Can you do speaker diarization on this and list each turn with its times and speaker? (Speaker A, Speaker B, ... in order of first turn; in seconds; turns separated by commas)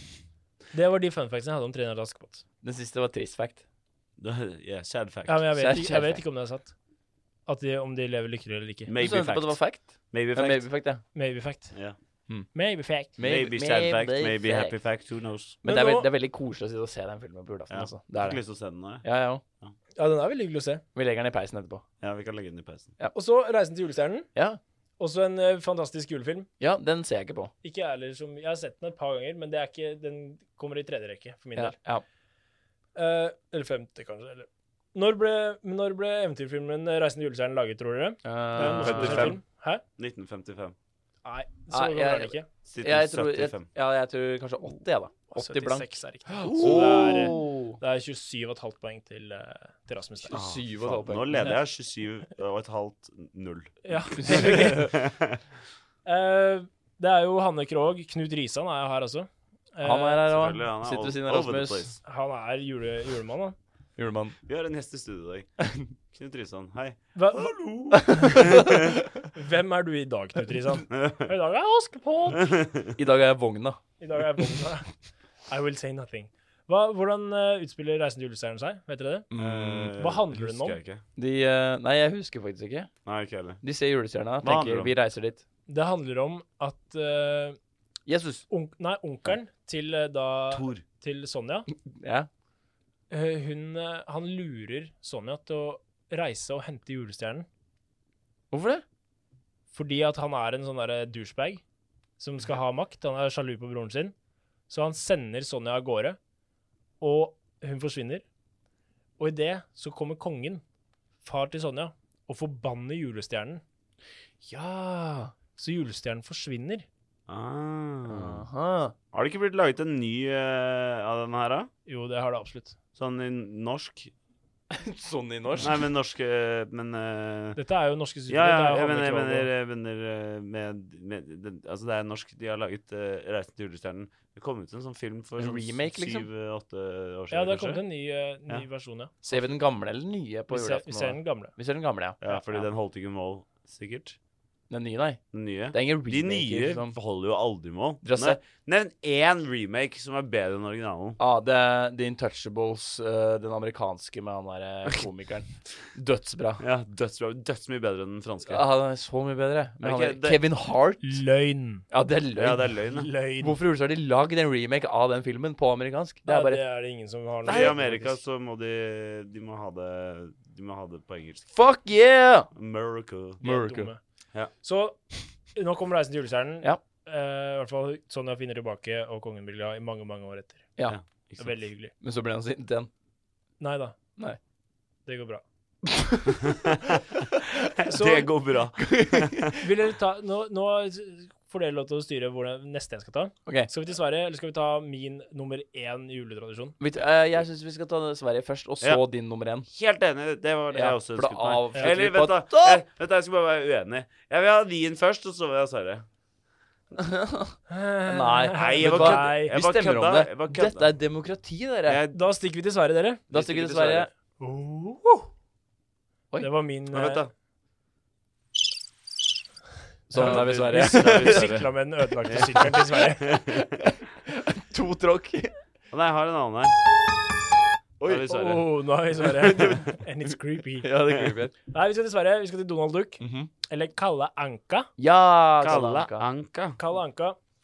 Speaker A: 0.7-2.4, Speaker B: 2.6-3.6, Speaker C: 4.2-5.5, Speaker A: 5.3-6.7, Speaker B: 5.6-6.2, Speaker A: 7.5-8.9, Speaker C: 8.9-10.7, Speaker B: 9.0-11.0, Speaker A: 11.1-11.8, Speaker A: 12.5-13.1, Speaker B: 13.2-14.8, Speaker C: 13.2-15.6, Speaker B: 15.6-18.4, Speaker A: 15.6-16.1, Speaker C: 17.7-19.0, Speaker B: 19.0-19.4, Speaker A: 19.9-20.8, Speaker B: 20.9-21.8, Speaker C: 22.0-22.9, Speaker A: 23.1-24.3, Speaker A: 25.0-26.5, Speaker B: 26.6-27.5, Speaker A: 27.6-31.8, Speaker B: 31.6-32.0, Speaker A: 33.0-39.8, Speaker B: 38.2-39.4, Speaker C: 38.5-39.4, Speaker C: 40.0-40.7, Speaker A: 41.2-42.5, Speaker B: 41.7-47.8, Speaker C: 42.7-43.6, Speaker A: 45.3-50.4, Speaker C: 46.5-47.3, Speaker B: 50.2-51.5, Speaker C: 50.3-55.4, Speaker A: 53.8-54.9, Speaker B: 54.1-54.9, Speaker A: 56.0-60.2, Speaker B: 59.8-61.9, Speaker C: 60.2-62.0, Speaker A: 62.0-63.5, Speaker B: 64.0-64.3, Speaker C: 64.5-65.5, Speaker C: 66.1-68.9, Speaker A: 67.1-72.5, Speaker B: 67.9-68.8, Speaker C: 70.9-71.3, Speaker C: 72.3-72.9, Speaker B: 72.9-73.8, Speaker A: 74.0-74.9, Speaker A: 75.5-79.3, Speaker B: 79.3-80.0, Speaker C: 79.3-81.0, Speaker A: 80.0-80.8, Speaker B: 81.2-82.9, Speaker C: 83.0-83.6, Speaker B: 83.6-85.4, Speaker C: 84.4-84.9, Speaker A: 85.7-87.6, Speaker B: 88.1-88.4, Speaker A: 88.5-91.7, Speaker C: 90.5-90.8, Speaker B: 91.9-92.3, Speaker A: 93.1-97.5, Speaker B: 98.5-98.8, Speaker A: 99.7-101.6, Speaker A: 102.2-104.1, Speaker A: 104.7-106.2, Speaker A: 107.0-108.2, Speaker A: 109.2-110.6, Speaker A: 111.2-113.6, Speaker B: 114.4-115.3, Speaker A: 115.5-116.8, Speaker C: 117.3-118.4, Speaker B: 118.1-118.9, Speaker C: 119.1-121.7, Speaker A: 121.9-122.8, Speaker C: 123.0-124.1, Speaker B: 124.7-125.9, Speaker C: 125.6-127.6, Speaker A: 127.5-129.5, Speaker C: 128.3-137.8, Speaker B: 135.4-136.3, Speaker A: 137.3-139.4, Speaker B: 139.2-142.2, Speaker A: 140.5-141.5, Speaker C: 142.2-144.2, Speaker B: 144.7-146.9, Speaker C: 145.3-151.2, Speaker B: 148.0-148.4, Speaker B: 151.2-156.6, Speaker C: 156.6-158.6, Speaker B: 158.5-161.2, Speaker C: 159.8-160.4, Speaker A: 161.0-161.9, Speaker B: 161.9-162.7, Speaker C: 162.3-163.1, Speaker A: 162.9-163.6, Speaker B: 163.4-166.6, Speaker A: 166.3-168.2, Speaker B: 167.4-167.8, Speaker C: 167.4-171.4, Speaker B: 171.5-172.5, Speaker C: 172.5-173.4, Speaker A: 173.4-174.0, Speaker B: 173.4-173.9, Speaker A: 174.6-175.0, Speaker A: 175.5-180.7, Speaker C: 180.9-181.6, Speaker A: 181.4-181.9, Speaker B: 182.0-182.9, Speaker A: 183.6-184.0, Speaker A: 185.1-185.4, Speaker B: 185.8-186.5, Speaker C: 186.4-187.0, Speaker C: 187.8-189.5, Speaker A: 187.8-188.3, Speaker B: 188.8-189.6, Speaker A: 189.6-196.8, Speaker B: 196.8-199.7, Speaker C: 199.7-206.1, Speaker B: 200.7-202.8, Speaker B: 207.0-212.0, Speaker A: 207.7-209.5, Speaker C: 208.5-210.9, Speaker C: 211.8-212.2, Speaker A: 212.1-213.2, Speaker C: 213.3-214.1, Speaker B: 213.3-214.1, Speaker A: 214.4-215.3, Speaker A: 216.4-217.3, Speaker C: 216.9-217.3, Speaker B: 220.1-221.6, Speaker C: 220.1-221.7, Speaker A: 220.1-223.4, Speaker C: 222.2-223.8, Speaker B: 222.4-225.5, Speaker C: 225.9-226.8, Speaker C: 228.0-228.7, Speaker A: 228.2-230.9, Speaker B: 229.3-230.0, Speaker B: 230.8-231.5, Speaker A: 231.7-234.9, Speaker B: 233.2-233.5, Speaker B: 235.0-236.3, Speaker C: 235.6-236.8, Speaker A: 236.8-237.4